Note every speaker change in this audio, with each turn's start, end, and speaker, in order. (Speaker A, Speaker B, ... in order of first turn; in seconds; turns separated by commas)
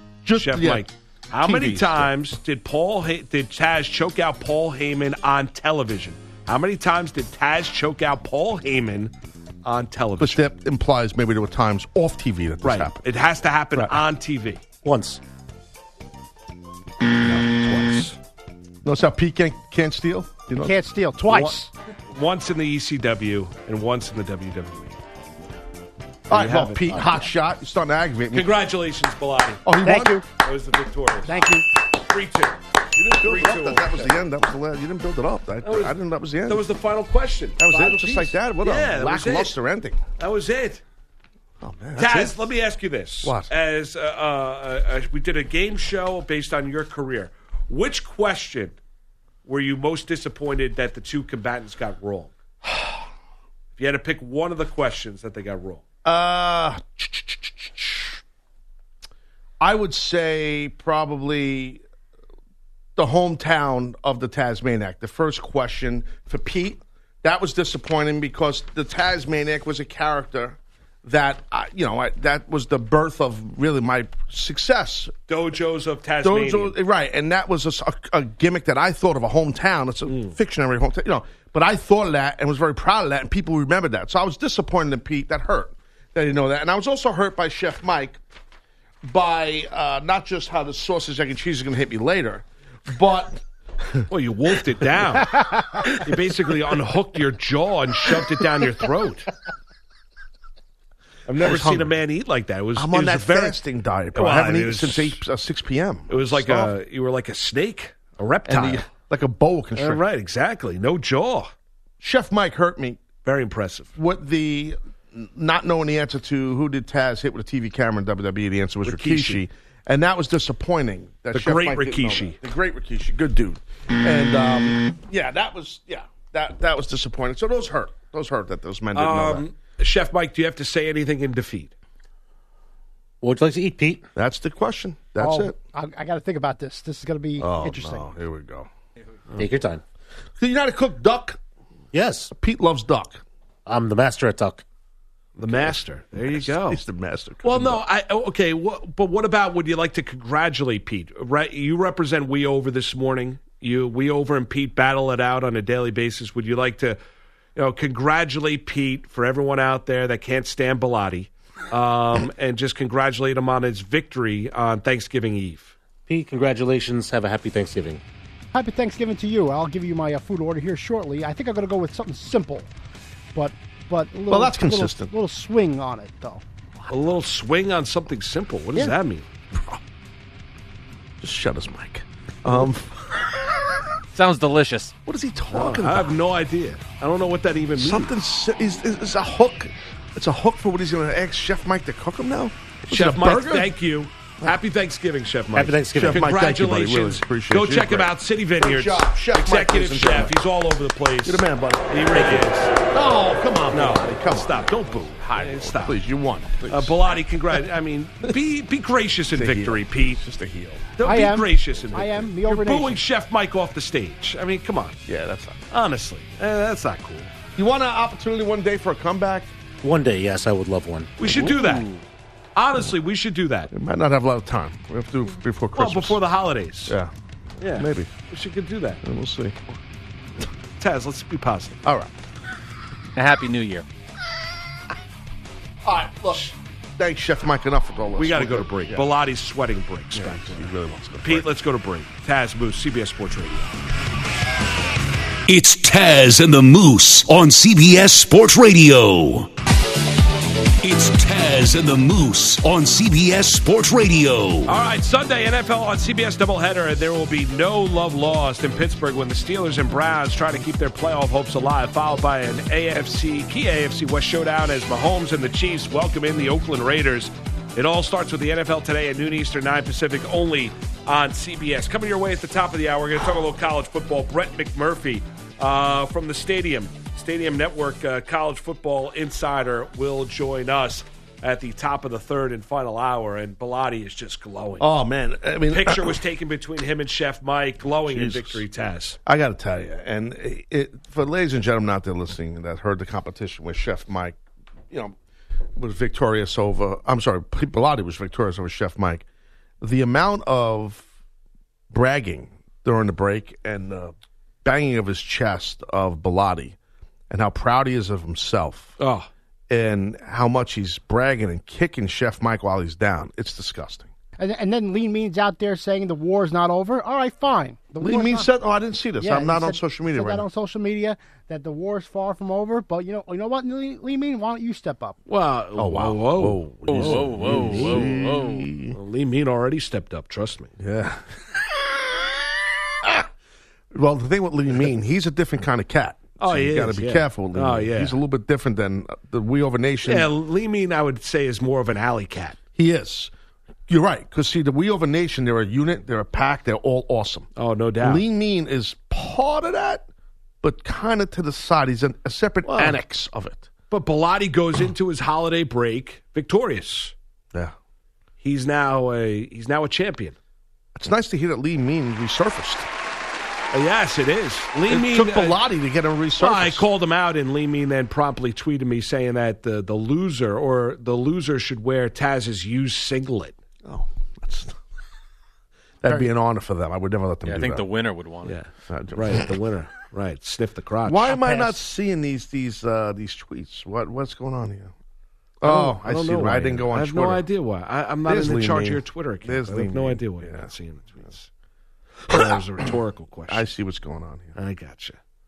Speaker A: 0.2-0.8, Speaker B: 0.3-9.1, Speaker A: 1.4-2.1, Speaker B: 9.7-10.4, Speaker A: 10.2-13.0, Speaker B: 12.6-14.6, Speaker A: 13.8-14.0, Speaker C: 14.8-15.2, Speaker B: 17.3-18.2, Speaker A: 18.8-20.8, Speaker D: 20.6-21.7, Speaker B: 21.3-21.6, Speaker B: 22.1-24.9, Speaker A: 26.3-28.5, Speaker B: 26.3-27.0, Speaker B: 28.3-29.6, Speaker A: 29.6-30.2, Speaker D: 29.8-30.2, Speaker B: 30.4-32.6, Speaker D: 31.2-31.7, Speaker A: 33.0-36.6, Speaker B: 33.2-34.1, Speaker B: 35.6-39.6, Speaker A: 37.6-40.0, Speaker B: 40.2-40.8, Speaker A: 41.6-42.5, Speaker B: 42.0-48.8, Speaker A: 43.2-43.5, Speaker B: 49.5-52.3, Speaker A: 52.7-52.9, Speaker B: 53.8-55.8, Speaker A: 56.0-58.2, Speaker A: 59.6-61.8, Speaker A: 63.0-75.1, Speaker B: 75.3-76.8, Speaker A: 76.2-88.2, Speaker B: 80.1-80.3, Speaker A: 89.0-94.1, Speaker B: 94.1-99.3, Speaker D: 95.4-95.8, Speaker B: 101.3-103.6, Speaker A: 101.3-102.0, Speaker A: 102.8-106.7, Speaker B: 104.2-105.2, Speaker B: 106.1-108.9, Speaker A: 108.5-110.0, Speaker B: 109.8-111.5, Speaker A: 112.0-113.0, Speaker B: 113.2-113.9, Speaker A: 114.0-129.5, Speaker B: 118.8-119.4, Speaker B: 121.3-122.4, Speaker B: 128.9-131.7, Speaker C: 133.2-134.0, Speaker A: 134.2-135.6, Speaker D: 135.2-138.1, Speaker A: 137.4-138.7, Speaker C: 139.4-139.8, Speaker A: 140.4-141.4, Speaker C: 141.9-142.3, Speaker A: 142.3-143.2, Speaker C: 143.7-144.6, Speaker B: 145.4-146.8, Speaker A: 145.5-147.8, Speaker B: 147.4-157.0, Speaker B: 157.6-165.7, Speaker C: 166.1-168.0, Speaker D: 168.5-172.7, Speaker D: 173.3-176.4, Speaker A: 174.3-175.1, Speaker B: 176.9-179.2, Speaker A: 181.2-183.3, Speaker E: 184.1-184.9, Speaker A: 185.1-186.1, Speaker B: 185.5-188.1, Speaker A: 187.8-193.7, Speaker B: 192.9-202.7, Speaker C: 195.6-196.3, Speaker A: 195.9-200.4, Speaker A: 201.2-204.6, Speaker B: 203.7-206.0, Speaker A: 205.2-207.0, Speaker B: 206.7-210.2, Speaker A: 209.3-211.0, Speaker B: 211.0-215.0, Speaker D: 211.0-213.0, Speaker A: 215.1-215.6, Speaker B: 215.7-217.3, Speaker A: 217.6-219.5, Speaker C: 219.8-221.7, Speaker B: 221.2-221.9, Speaker A: 221.3-221.7, Speaker B: 222.6-223.7, Speaker A: 223.7-226.2, Speaker B: 225.8-226.9, Speaker A: 226.9-227.1, Speaker B: 227.6-229.0, Speaker A: 227.7-228.1, Speaker A: 229.0-229.8, Speaker B: 230.8-231.8, Speaker A: 231.8-232.1, Speaker E: 233.2-233.8, Speaker A: 235.8-239.1, Speaker B: 238.2-243.8, Speaker A: 240.2-241.5, Speaker F: 245.5-249.5, Speaker F: 250.8-254.7, Speaker B: 254.7-284.9, Speaker A: 284.8-286.2, Speaker B: 285.7-289.2, Speaker A: 288.1-288.6, Speaker A: 289.3-294.4, Speaker A: 295.8-299.2, Speaker A: 299.8-301.1, Speaker A: 301.9-306.8, Speaker A: 307.3-309.0, Speaker B: 309.0-309.3, Speaker A: 309.7-314.1, Speaker D: 314.4-318.5, Speaker A: 318.0-320.5, Speaker D: 319.2-325.2, Speaker B: 325.3-328.1, Speaker A: 325.8-329.0, Speaker E: 326.9-328.7, Speaker B: 328.9-330.7, Speaker A: 330.8-331.2, Speaker A: 333.9-340.3, Speaker B: 336.4-338.2, Speaker B: 340.1-342.6, Speaker A: 342.8-343.3, Speaker A: 343.9-347.5, Speaker B: 347.6-348.2, Speaker A: 348.0-350.1, Speaker A: 350.6-353.7, Speaker B: 352.6-353.0, Speaker B: 353.9-357.1, Speaker B: 358.4-360.4, Speaker A: 360.9-362.9, Speaker B: 363.7-365.6, Speaker A: 364.9-366.9, Speaker B: 366.4-373.6, Speaker A: 373.9-374.8, Speaker A: 376.0-377.9, Speaker E: 377.4-378.6, Speaker B: 378.4-381.6, Speaker A: 378.9-379.5, Speaker A: 381.1-384.9, Speaker D: 381.4-381.7, Speaker A: 385.6-387.4, Speaker B: 385.6-391.5, Speaker A: 388.2-390.7, Speaker B: 392.3-393.6, Speaker A: 392.3-392.6, Speaker A: 393.5-394.6, Speaker B: 394.6-395.2